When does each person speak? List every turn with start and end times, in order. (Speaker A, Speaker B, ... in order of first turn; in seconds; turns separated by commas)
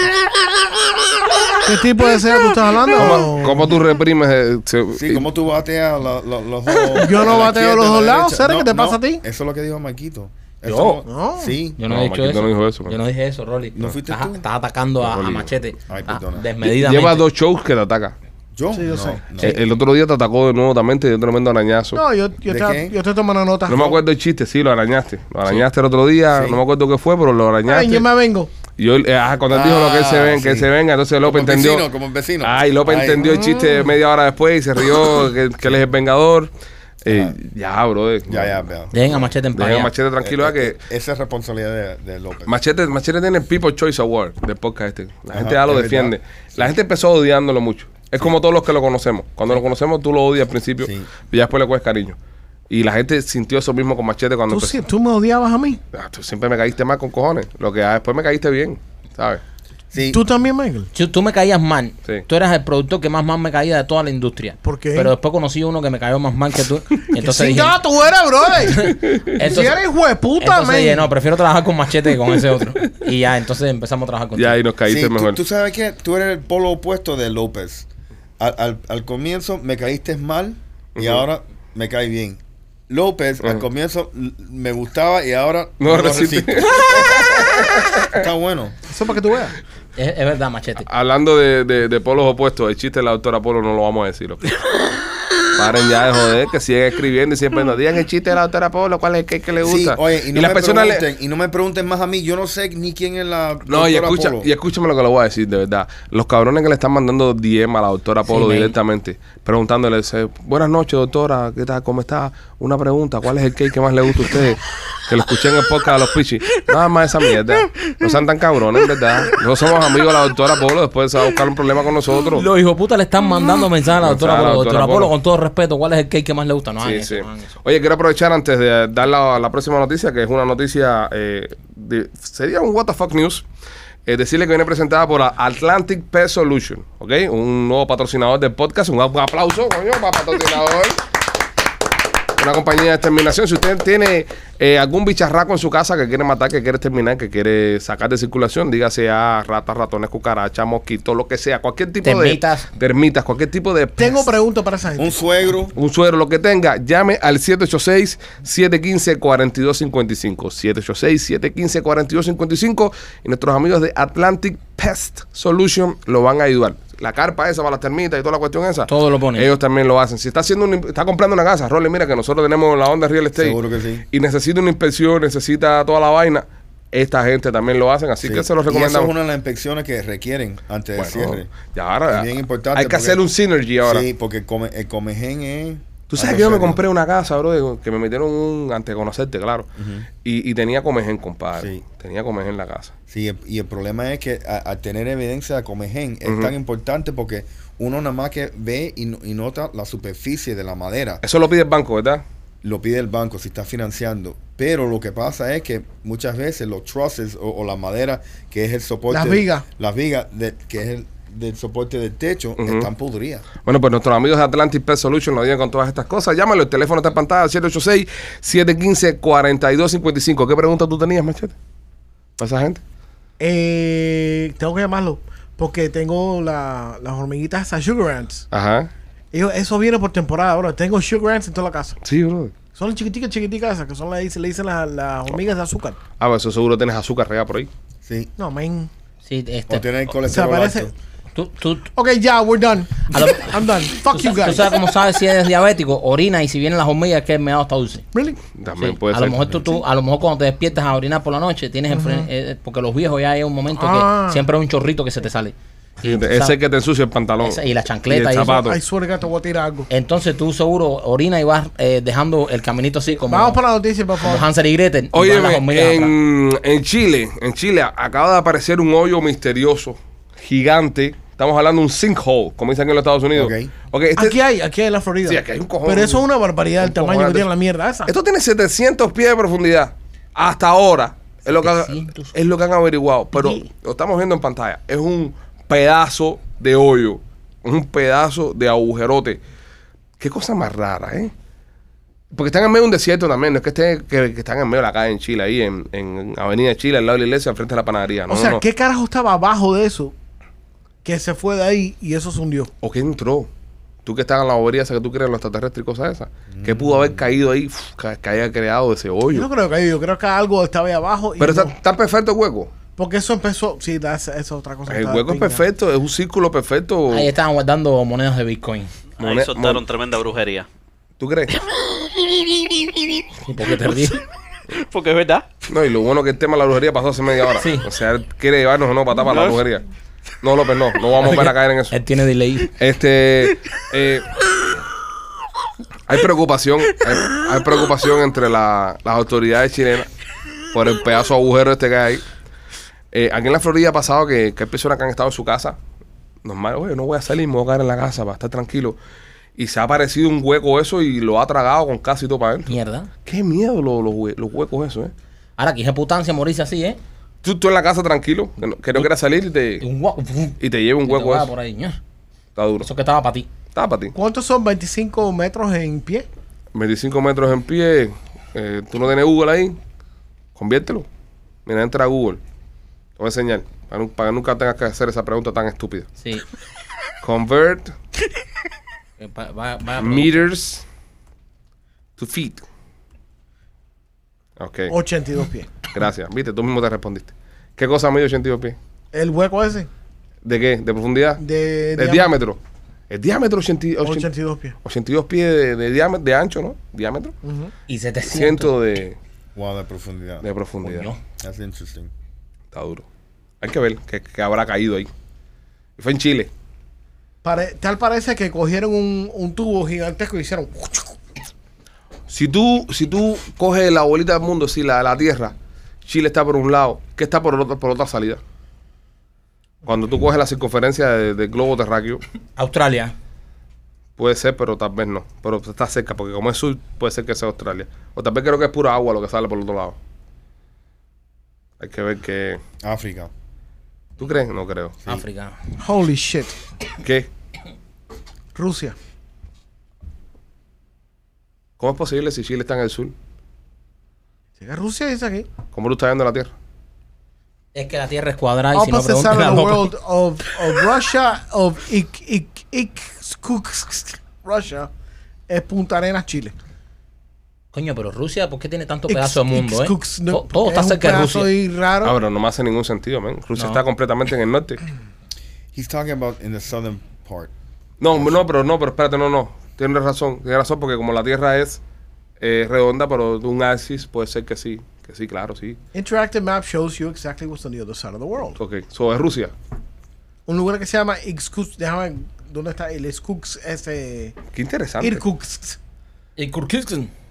Speaker A: 1.6-3.8, Speaker B: 2.9-5.3, Speaker C: 4.9-11.8, Speaker A: 6.9-9.2, Speaker D: 10.7-11.0, Speaker A: 11.1-11.6, Speaker D: 11.8-17.2, Speaker B: 11.9-12.9, Speaker C: 13.7-14.4, Speaker B: 15.0-15.5, Speaker C: 15.9-16.5, Speaker B: 16.6-18.1, Speaker C: 18.5-19.6, Speaker A: 18.7-19.5, Speaker B: 19.4-22.0, Speaker A: 21.9-24.0, Speaker C: 22.4-22.9, Speaker B: 23.7-28.1, Speaker C: 26.3-26.6, Speaker A: 27.6-28.5, Speaker B: 28.8-31.9, Speaker C: 29.5-30.7, Speaker C: 31.2-33.3, Speaker B: 32.4-36.5, Speaker A: 33.2-33.9, Speaker B: 37.0-38.7, Speaker C: 37.0-37.3, Speaker C: 38.3-39.3, Speaker D: 38.9-39.9, Speaker B: 39.5-40.8, Speaker C: 40.2-42.5, Speaker B: 42.5-52.2, Speaker C: 45.3-46.7, Speaker C: 50.8-51.1, Speaker B: 52.7-54.8, Speaker A: 54.5-55.8, Speaker B: 55.9-59.4, Speaker C: 59.9-60.2, Speaker A: 60.1-60.9, Speaker D: 60.9-67.8, Speaker A: 64.6-65.1, Speaker A: 67.1-71.1, Speaker D: 68.7-69.8, Speaker D: 70.4-74.6, Speaker B: 74.3-75.4, Speaker C: 74.8-77.9, Speaker C: 78.4-88.8, Speaker B: 81.0-81.2, Speaker B: 85.8-88.2, Speaker A: 88.9-89.5, Speaker D: 90.0-90.9, Speaker B: 90.9-94.5, Speaker B: 95.5-101.0, Speaker C: 99.6-104.5, Speaker B: 103.7-122.5, Speaker D: 108.3-108.7, Speaker D: 122.3-127.5, Speaker B: 124.0-125.1, Speaker B: 126.8-133.4, Speaker B: 134.1-141.0, Speaker B: 142.4-154.3, Speaker D: 152.0-152.7, Speaker A: 154.0-155.2, Speaker C: 155.0-155.7, Speaker B: 155.7-173.6, Speaker D: 168.9-169.5, Speaker C: 173.3-174.0, Speaker B: 174.1-179.1, Speaker C: 178.2-181.5, Speaker B: 180.9-184.1, Speaker C: 182.1-183.2, Speaker C: 183.8-186.8, Speaker B: 186.1-189.7, Speaker C: 189.8-190.1, Speaker B: 190.2-192.9, Speaker C: 191.6-191.8, Speaker C: 193.1-201.2, Speaker B: 196.2-196.5, Speaker B: 201.2-202.2, Speaker C: 202.6-213.4, Speaker A: 209.1-209.6, Speaker B: 212.6-212.9, Speaker B: 213.6-221.5, Speaker B: 222.4-222.8, Speaker A: 223.4-228.4, Speaker B: 228.5-228.9, Speaker A: 229.3-232.0, Speaker B: 232.0-232.5, Speaker A: 232.7-236.0, Speaker B: 236.2-237.7, Speaker C: 238.0-238.3, Speaker A: 238.4-238.9, Speaker D: 239.2-239.8, Speaker C: 239.7-240.9, Speaker A: 240.3-240.9, Speaker D: 241.3-241.9, Speaker A: 241.9-244.7, Speaker D: 243.1-248.0, Speaker A: 248.1-248.4, Speaker B: 248.6-249.6, Speaker D: 248.8-256.5, Speaker A: 251.9-252.3, Speaker A: 253.7-254.4, Speaker B: 256.0-258.8, Speaker D: 257.4-258.6, Speaker A: 258.6-259.9, Speaker D: 259.9-263.6, Speaker A: 263.3-264.5, Speaker D: 264.2-266.1, Speaker B: 265.1-274.4, Speaker C: 273.3-273.7, Speaker A: 274.2-278.1, Speaker B: 275.2-276.2, Speaker B: 276.8-277.5, Speaker B: 278.1-289.4, Speaker D: 281.6-282.3, Speaker B: 290.2-291.3, Speaker B: 292.3-298.6, Speaker A: 298.3-300.1, Speaker A: 301.0-302.7, Speaker B: 302.8-303.5, Speaker B: 304.0-309.5, Speaker C: 306.5-307.2, Speaker A: 309.3-311.7, Speaker B: 311.4-312.7, Speaker A: 312.9-315.6, Speaker B: 314.9-317.3, Speaker D: 317.1-318.9, Speaker E: 319.2-320.7, Speaker B: 319.2-319.8, Speaker B: 321.2-321.5, Speaker E: 321.5-324.2, Speaker D: 323.4-324.2, Speaker E: 324.7-325.5, Speaker B: 325.7-329.8, Speaker D: 327.6-327.9, Speaker E: 329.2-329.6, Speaker B: 330.4-331.9, Speaker D: 331.2-332.7, Speaker B: 332.8-334.4, Speaker B: 336.1-340.1, Speaker B: 340.7-342.2, Speaker B: 343.1-345.8, Speaker B: 346.4-349.0, Speaker B: 349.6-352.7, Speaker D: 352.7-353.1, Speaker B: 353.2-355.1, Speaker D: 355.6-357.0, Speaker B: 357.4-359.8, Speaker D: 359.8-362.0, Speaker B: 360.6-361.5, Speaker B: 362.6-362.9, Speaker D: 362.8-363.5, Speaker B: 363.7-364.1, Speaker A: 364.1-366.3, Speaker B: 366.7-369.8, Speaker B: 370.6-371.1, Speaker B: 371.6-372.4, Speaker B: 373.2-376.1, Speaker B: 377.2-377.9, Speaker D: 379.2-380.5, Speaker B: 380.0-380.8, Speaker B: 382.2-382.6, Speaker B: 384.6-384.9, Speaker A: 384.9-385.7, Speaker B: 385.9-388.8, Speaker A: 389.1-389.9, Speaker B: 390.4-391.4, Speaker A: 391.4-392.3, Speaker B: 391.9-392.6, Speaker B: 393.1-394.3, Speaker A: 394.0-394.8, Speaker B: 394.8-397.3, Speaker A: 397.4-397.7, Speaker D: 397.9-398.7, Speaker B: 398.3-399.1, Speaker C: 399.5-400.4, Speaker B: 400.4-401.1, Speaker D: 400.8-401.2, Speaker C: 401.4-402.1, Speaker B: 402.7-403.0, Speaker B: 403.6-405.1, Speaker B: 406.0-406.5, Speaker A: 407.4-411.2, Speaker B: 412.3-415.5, Speaker B: 416.1-418.4, Speaker B: 419.8-422.2, Speaker D: 422.6-423.1, Speaker B: 424.2-429.9, Speaker B: 431.8-432.6, Speaker C: 432.8-433.3, Speaker B: 434.2-435.0, Speaker D: 435.1-435.6, Speaker A: 435.8-436.6, Speaker B: 437.0-437.3, Speaker A: 438.5-438.9, Speaker B: 441.8-443.1, Speaker A: 444.6-445.5, Speaker B: 445.7-446.5, Speaker D: 447.7-449.9, Speaker A: 448.7-454.9, Speaker A: 455.5-456.5, Speaker D: 457.7-461.5, Speaker A: 459.1-462.1, Speaker B: 462.0-464.8, Speaker C: 465.7-467.5, Speaker B: 468.0-471.8, Speaker B: 472.4-475.8, Speaker A: 475.9-478.6, Speaker B: 478.6-479.5, Speaker A: 480.4-484.3, Speaker B: 484.5-485.2, Speaker A: 485.0-485.8, Speaker D: 486.4-487.1